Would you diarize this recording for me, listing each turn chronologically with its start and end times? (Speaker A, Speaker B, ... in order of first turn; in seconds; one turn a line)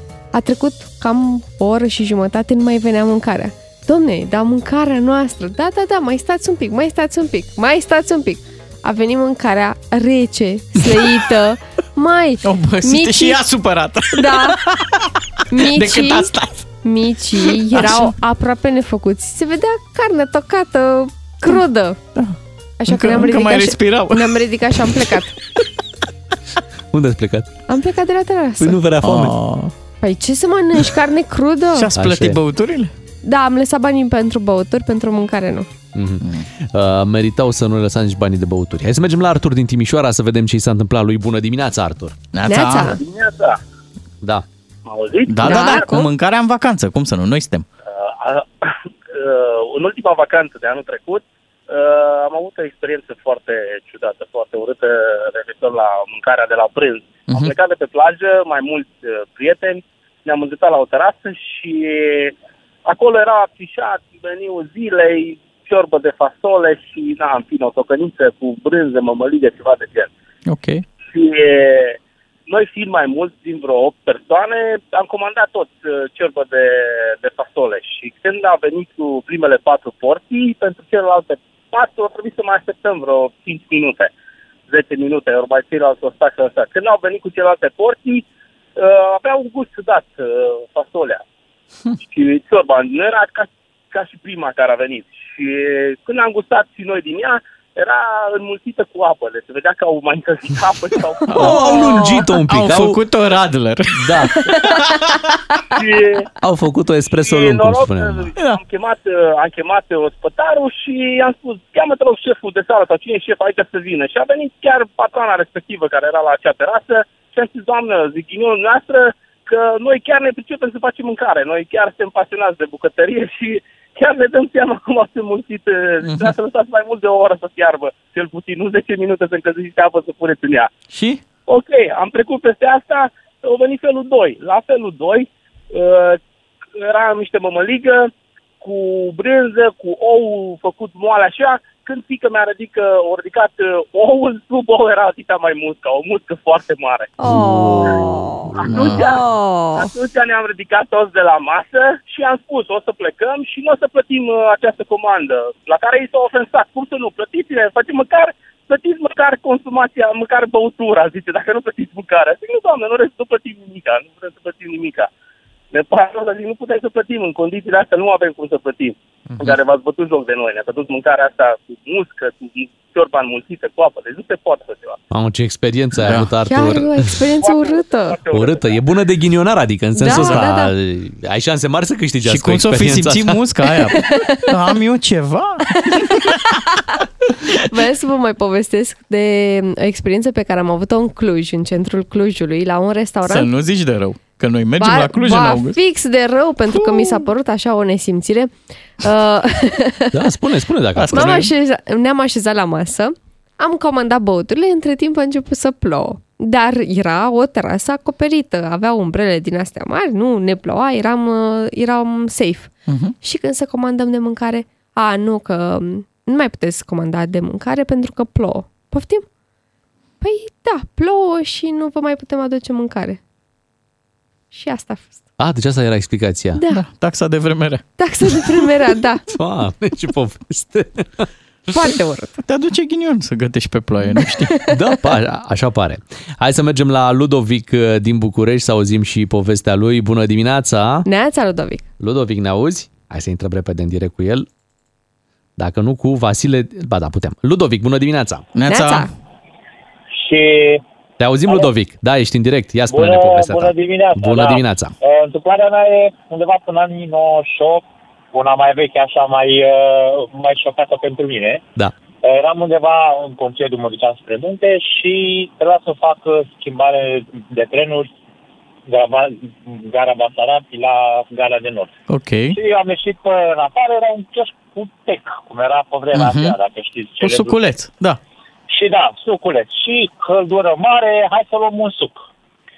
Speaker A: 0.3-13.4
Speaker B: 12.4-16.6
Speaker A: 14.1-14.6
Speaker A: 15.5-16.3
Speaker A: 16.8-22.0
Speaker B: 17.4-18.1
Speaker A: 22.8-25.3
Speaker B: 22.9-24.4
Speaker C: 26.9-27.5
Speaker A: 27.7-28.8
Speaker C: 28.6-29.4
Speaker B: 29.0-29.7
Speaker A: 30.0-31.9
Speaker B: 31.7-32.9
Speaker C: 31.9-32.4
Speaker A: 33.2-35.7
Speaker C: 35.9-42.2
Speaker B: 36.2-36.5
Speaker B: 42.3-43.0
Speaker A: 42.5-43.0
Speaker D: 43.0-43.6
Speaker D: 44.9-45.8
Speaker B: 45.2-47.6
Speaker A: 45.4-46.1
Speaker D: 47.9-62.3
Speaker B: 57.3-57.5
Speaker D: 62.9-70.1
Speaker B: 70.5-70.8
Speaker D: 71.1-72.0
Speaker D: 72.5-84.1
Speaker D: 84.7-88.2
Speaker D: 88.8-91.2
Speaker D: 92.0-101.2
Speaker B: 101.2-105.3
Speaker C: 101.3-103.0
Speaker A: 101.4-102.0
Speaker C: 103.9-104.3
Speaker D: 105.8-106.3
Speaker C: 106.4-108.3
Speaker D: 107.2-130.7
Speaker B: 126.0-126.3
Speaker B: 130.9-131.2
Speaker D: 131.5-136.2
Speaker D: 136.8-147.1
Speaker A: 147.2-149.9
Speaker B: 147.3-147.9
Speaker C: 147.5-148.1
Speaker D: 148.6-149.2
Speaker B: 148.6-149.2
Speaker D: 149.7-165.1
Speaker D: 165.7-175.0
Speaker B: 169.3-169.6
Speaker C: 175.1-177.2
Speaker B: 176.0-176.3
Speaker A: 176.5-178.2
Speaker D: 177.4-178.7
Speaker C: 178.3-183.4
Speaker A: 180.0-180.7
Speaker B: 180.1-180.4
Speaker B: 182.2-186.7
Speaker A: 184.0-184.5
Speaker A: 185.9-186.2
Speaker A: 187.5-193.5
Speaker B: 193.2-195.8
Speaker A: 194.8-200.2
Speaker B: 196.7-197.2
Speaker C: 200.1-201.4
Speaker B: 200.9-201.5
Speaker A: 201.1-219.2
Speaker B: 212.9-213.1
Speaker A: 220.2-223.2
Speaker A: 224.5-225.2
Speaker C: 225.4-226.6
Speaker A: 226.6-226.8
Speaker B: 226.7-227.8
Speaker A: 228.0-229.2
Speaker C: 229.3-231.3
Speaker A: 231.7-232.3
Speaker B: 232.4-234.5
Speaker C: 234.7-241.1
Speaker A: 241.1-241.8
Speaker C: 242.0-244.5
Speaker C: 245.6-248.4
Speaker B: 248.6-249.1
Speaker A: 248.7-249.1
Speaker E: 250.2-250.8
Speaker C: 251.2-254.9
Speaker E: 252.9-261.6
Speaker E: 262.2-268.1
Speaker E: 268.9-271.9
Speaker B: 272.1-272.6
Speaker E: 272.5-277.6
Speaker B: 276.1-276.6
Speaker B: 277.2-278.2
Speaker E: 278.7-282.2